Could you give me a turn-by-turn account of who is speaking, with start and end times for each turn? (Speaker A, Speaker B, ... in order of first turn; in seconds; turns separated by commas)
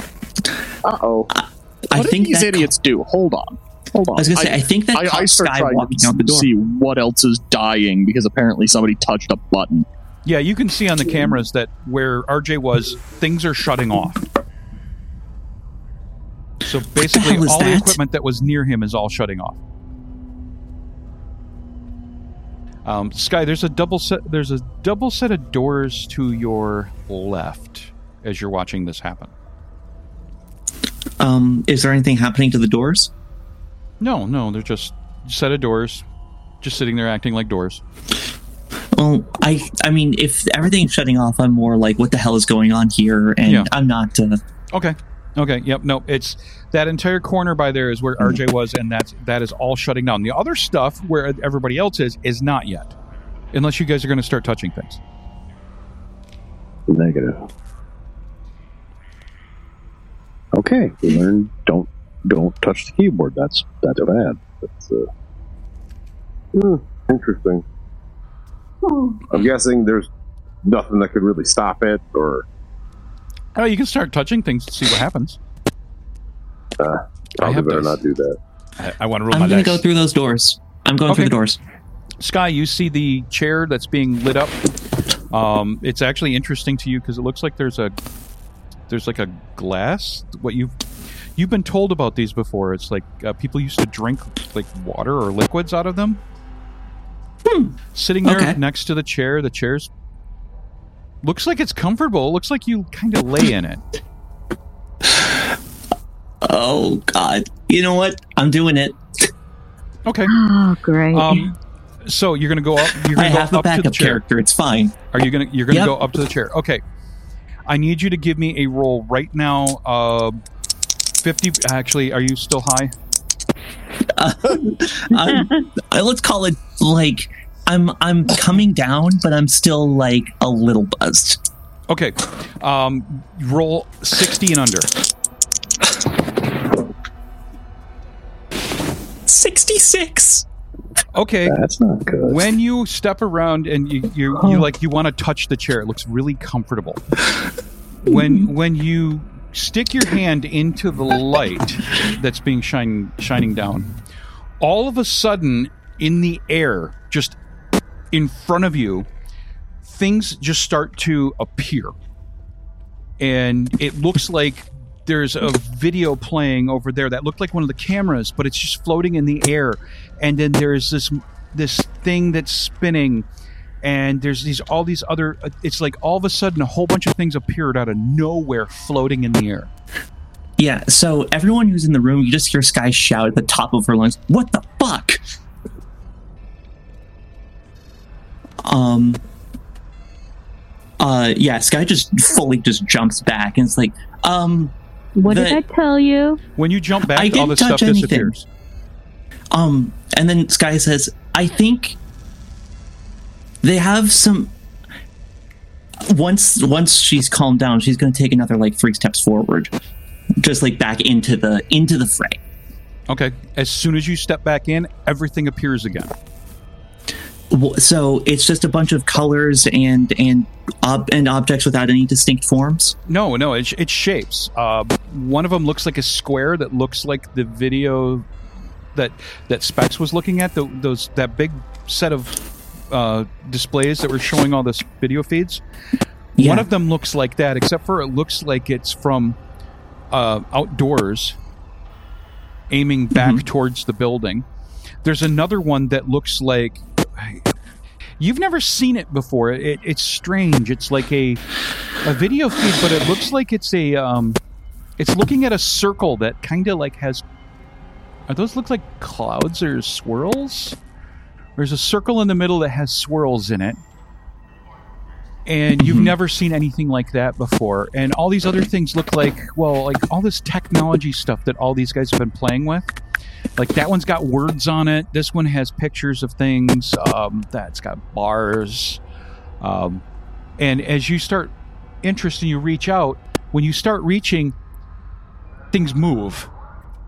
Speaker A: 0.8-1.3, Speaker B: 1.3-2.7, Speaker A: 1.9-9.8, Speaker B: 4.1-6.5, Speaker C: 10.2-14.2, Speaker C: 16.6-19.6, Speaker B: 17.0-18.0, Speaker C: 22.8-29.3, Speaker B: 31.2-33.1, Speaker C: 34.0-36.0, Speaker C: 36.6-37.8, Speaker B: 38.9-44.4, Speaker C: 43.4-43.7, Speaker C: 44.7-52.9, Speaker C: 53.5-55.0, Speaker D: 56.9-57.5, Speaker D: 60.5-65.1, Speaker E: 66.5-67.6, Speaker F: 68.8-69.2, Speaker E: 69.3-70.1, Speaker E: 70.6-72.4, Speaker C: 73.5-75.4, Speaker E: 76.8-78.4, Speaker C: 77.4-78.0, Speaker C: 78.8-79.8, Speaker B: 79.3-81.6, Speaker C: 81.1-81.3, Speaker C: 82.2-84.6, Speaker C: 85.3-87.9, Speaker C: 88.9-90.7, Speaker C: 91.3-96.2, Speaker B: 97.5-98.6, Speaker C: 97.9-99.9, Speaker C: 101.2-103.8, Speaker B: 105.0-105.5, Speaker B: 106.4-109.3, Speaker C: 110.0-110.3, Speaker F: 110.3-111.5, Speaker C: 111.1-111.5, Speaker C: 112.0-114.2, Speaker B: 113.1-115.0, Speaker C: 115.1-116.8, Speaker B: 115.7-116.0, Speaker C: 117.7-120.4, Speaker C: 121.2-122.9, Speaker B: 124.1-131.4, Speaker C: 131.9-134.9, Speaker B: 139.2-140.4, Speaker C: 141.1-141.6, Speaker D: 141.4-142.4, Speaker C: 142.2-147.0, Speaker C: 148.0-153.9, Speaker B: 148.1-148.4, Speaker C: 154.6-157.4, Speaker C: 158.1-159.1, Speaker C: 159.8-161.9, Speaker C: 163.2-173.2, Speaker C: 173.8-179.7, Speaker B: 180.6-185.2, Speaker B: 188.6-189.2, Speaker B: 191.0-194.7, Speaker F: 195.2-196.4, Speaker B: 195.2-195.6, Speaker C: 196.6-198.4, Speaker B: 197.1-198.3, Speaker B: 199.5-202.0, Speaker B: 203.6-204.5, Speaker B: 206.0-209.7, Speaker B: 210.4-212.4, Speaker C: 213.1-216.1, Speaker B: 217.5-222.9, Speaker C: 223.1-228.2, Speaker C: 228.9-232.4, Speaker C: 232.9-235.6, Speaker B: 236.4-236.7, Speaker C: 236.4-239.4, Speaker C: 240.1-241.4, Speaker C: 242.7-244.4, Speaker B: 243.1-243.4, Speaker C: 245.0-247.4, Speaker C: 248.2-251.4, Speaker C: 252.0-254.4, Speaker C: 255.0-257.2, Speaker C: 258.3-260.8, Speaker C: 261.6-263.8, Speaker C: 265.4-272.9, Speaker B: 265.8-266.1, Speaker C: 273.6-279.0, Speaker C: 279.6-280.0, Speaker C: 280.6-284.6, Speaker C: 285.7-286.5